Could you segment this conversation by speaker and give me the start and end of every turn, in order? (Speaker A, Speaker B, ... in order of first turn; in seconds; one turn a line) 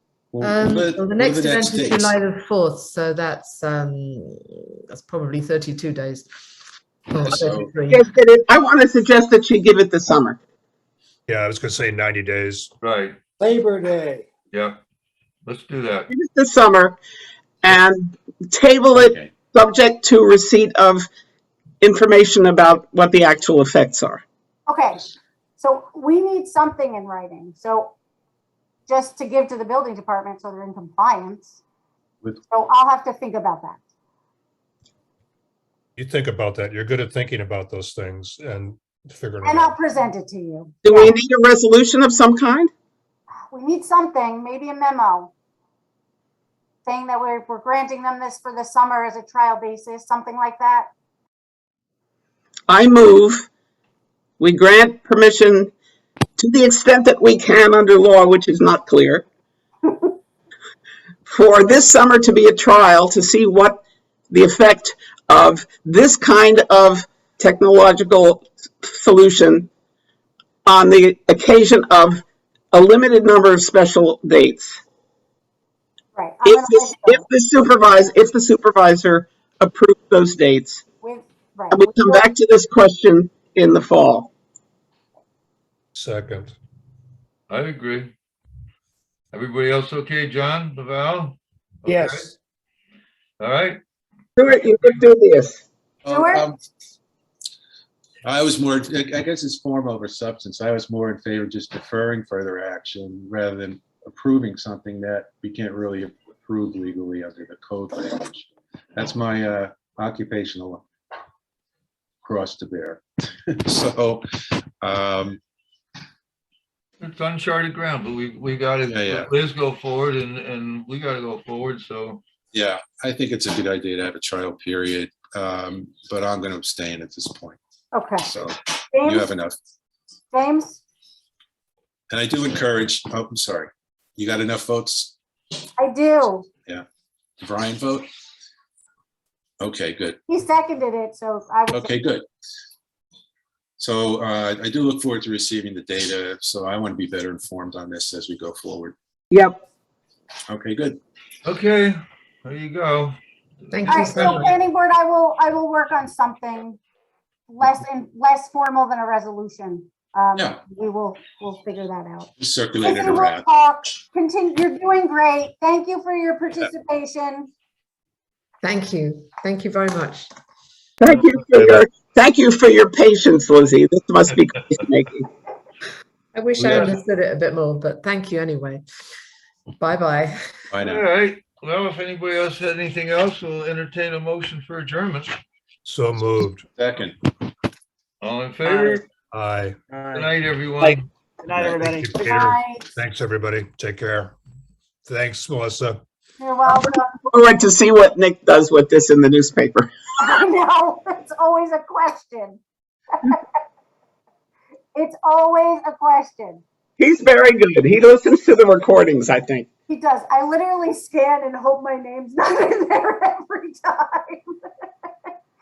Speaker A: 0.3-2.2
Speaker B: 0.4-6.3
Speaker B: 7.1-8.1
Speaker A: 7.2-7.7
Speaker C: 7.9-10.4
Speaker D: 11.3-12.7
Speaker E: 12.8-13.2
Speaker F: 13.4-14.2
Speaker E: 14.5-14.8
Speaker E: 15.4-16.1
Speaker C: 16.1-17.0
Speaker C: 17.6-21.1
Speaker A: 18.9-19.3
Speaker C: 21.8-24.2
Speaker G: 24.7-25.1
Speaker G: 25.6-27.9
Speaker G: 28.9-31.6
Speaker G: 32.5-33.8
Speaker D: 36.0-39.8
Speaker G: 39.4-41.1
Speaker C: 40.8-42.7
Speaker G: 43.5-45.3
Speaker G: 46.9-50.9
Speaker C: 52.7-53.5
Speaker C: 54.4-55.7
Speaker C: 56.4-59.2
Speaker C: 61.2-69.7
Speaker C: 70.6-74.8
Speaker G: 76.1-77.3
Speaker C: 76.4-80.8
Speaker G: 81.0-82.2
Speaker C: 81.7-84.3
Speaker D: 85.9-86.5
Speaker E: 87.5-88.1
Speaker E: 89.3-92.3
Speaker F: 91.9-92.3
Speaker E: 93.4-93.8
Speaker C: 94.4-95.6
Speaker A: 96.0-96.6
Speaker G: 96.1-96.5
Speaker A: 98.2-110.8
Speaker A: 112.2-114.2
Speaker A: 114.8-115.4
Speaker E: 117.0-122.2
Speaker A: 118.9-119.3
Speaker A: 122.5-127.6
Speaker G: 127.9-128.3
Speaker A: 128.2-129.6
Speaker G: 128.9-129.3
Speaker G: 130.3-130.8
Speaker A: 132.1-135.2
Speaker G: 135.8-136.4
Speaker A: 137.4-138.1
Speaker A: 139.6-140.2
Speaker G: 140.3-141.9
Speaker A: 141.7-142.2
Speaker A: 143.8-148.9
Speaker C: 149.3-149.6
Speaker A: 150.5-151.0
Speaker E: 151.4-153.2
Speaker B: 153.7-154.5
Speaker E: 153.7-154.5
Speaker G: 153.8-156.8
Speaker G: 157.5-162.3
Speaker A: 162.4-163.5
Speaker G: 162.8-167.5
Speaker B: 168.6-170.3
Speaker C: 171.0-175.3
Speaker B: 176.3-178.8
Speaker A: 176.6-176.9
Speaker B: 179.8-180.3
Speaker A: 180.7-181.0
Speaker E: 180.8-185.4
Speaker D: 185.8-186.6
Speaker A: 186.8-187.2
Speaker E: 188.2-189.0
Speaker F: 188.6-189.0
Speaker D: 189.3-189.8
Speaker F: 189.9-192.2
Speaker E: 190.1-191.1
Speaker A: 191.5-191.8
Speaker D: 191.6-194.3
Speaker G: 192.2-192.9
Speaker D: 195.0-196.0
Speaker G: 196.4-197.1
Speaker C: 196.7-199.9
Speaker G: 200.2-202.6
Speaker G: 203.1-203.6
Speaker G: 204.9-206.6
Speaker C: 207.0-209.7
Speaker G: 209.9-214.6